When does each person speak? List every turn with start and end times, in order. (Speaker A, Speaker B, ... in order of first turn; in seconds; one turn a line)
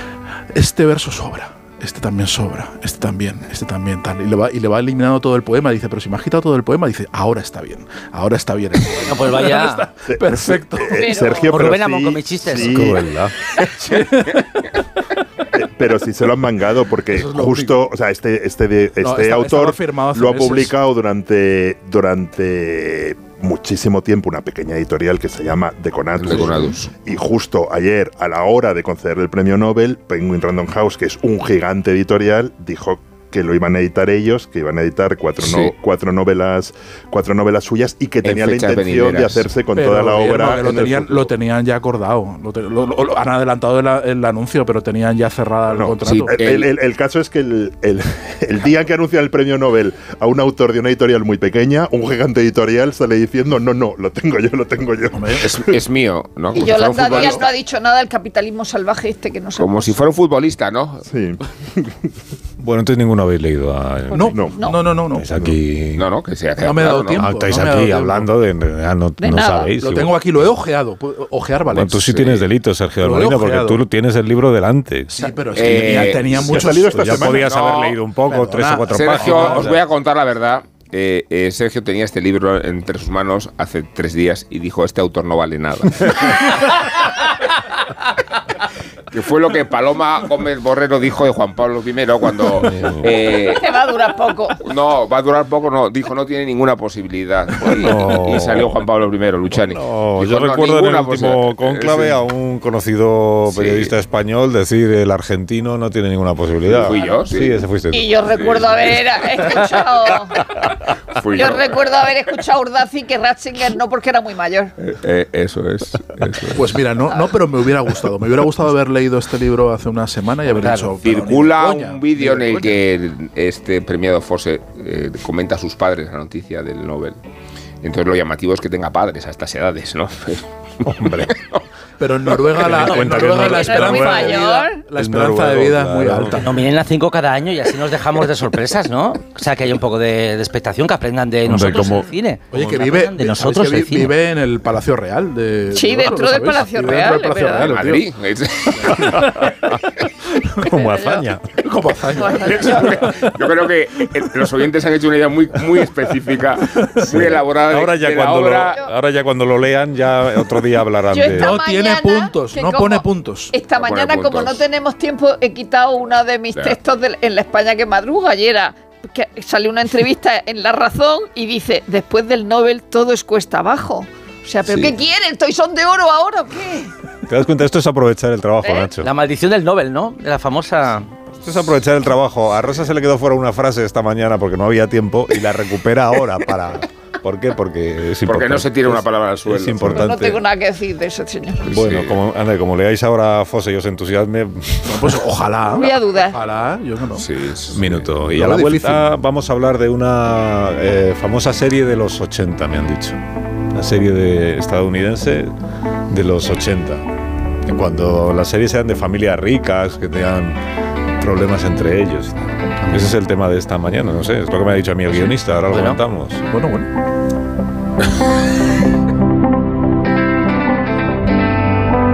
Speaker A: 0.5-11.8
Speaker B: 8.9-9.8
Speaker C: 10.1-13.0
Speaker D: 10.9-11.5
Speaker B: 11.5-12.9
Speaker E: 12.5-13.3
Speaker A: 13.6-14.7
Speaker C: 15.6-41.3
Speaker A: 17.1-17.8
Speaker A: 19.0-20.8
Speaker F: 26.2-26.9
Speaker F: 35.4-35.7
Speaker F: 38.2-39.5
Speaker A: 39.7-46.5
Speaker C: 45.7-55.8
Speaker F: 46.1-46.7
Speaker A: 55.1-55.4
Speaker F: 55.4-57.5
Speaker D: 56.5-60.0
Speaker F: 59.6-61.0
Speaker C: 61.1-62.0
Speaker E: 62.6-66.1
Speaker A: 64.1-65.4
Speaker C: 64.2-64.7
Speaker F: 65.9-67.3
Speaker A: 66.6-68.3
Speaker E: 67.1-70.2
Speaker D: 69.2-69.7
Speaker A: 69.8-72.3
Speaker E: 71.7-75.3
Speaker A: 73.0-73.8
Speaker A: 75.1-79.7
Speaker F: 75.5-76.4
Speaker C: 76.2-77.5
Speaker E: 76.4-79.8
Speaker F: 78.9-86.9
Speaker F: 89.1-93.7
Speaker E: 92.6-93.1
Speaker D: 93.5-94.6
Speaker F: 94.6-102.2
Speaker E: 97.6-98.8
Speaker E: 99.5-108.7
Speaker F: 103.5-103.9
Speaker F: 106.7-107.6
Speaker D: 107.9-110.4
Speaker F: 108.3-108.9
Speaker F: 111.1-112.1
Speaker D: 111.3-114.7
Speaker F: 114.8-116.8
Speaker A: 116.5-122.8
Speaker B: 120.6-120.9
Speaker F: 121.0-127.2
Speaker F: 127.8-131.6
Speaker E: 130.8-131.3
Speaker A: 132.0-136.6
Speaker E: 132.6-134.4
Speaker B: 132.8-133.8
Speaker D: 133.4-134.8
Speaker E: 134.9-136.4
Speaker B: 136.3-144.1
Speaker E: 141.4-142.1
Speaker A: 142.5-148.1
Speaker D: 145.7-147.7
Speaker F: 147.5-149.2
Speaker E: 148.9-149.8
Speaker E: 150.6-151.5
Speaker D: 150.7-151.2
Speaker A: 151.6-153.3
Speaker D: 152.2-153.0
Speaker F: 152.3-158.8
Speaker A: 156.8-157.2
Speaker E: 157.2-161.5
Speaker D: 161.1-176.9
Speaker A: 161.3-163.5
Speaker F: 163.8-164.6
Speaker E: 177.3-179.1
Speaker D: 178.6-178.9
Speaker B: 179.0-181.1
Speaker E: 181.4-190.4
Speaker F: 188.2-190.1
Speaker D: 189.9-191.7
Speaker F: 191.7-192.2
Speaker E: 191.7-195.2
Speaker A: 194.8-197.3
Speaker D: 195.7-196.4
Speaker F: 197.2-198.1
Speaker E: 197.7-203.2
Speaker A: 198.3-199.1
Speaker E: 203.7-205.5
Speaker E: 206.1-207.1
Speaker E: 207.7-210.6
Speaker E: 211.2-216.4
Speaker B: 215.7-216.0
Speaker A: 216.4-216.9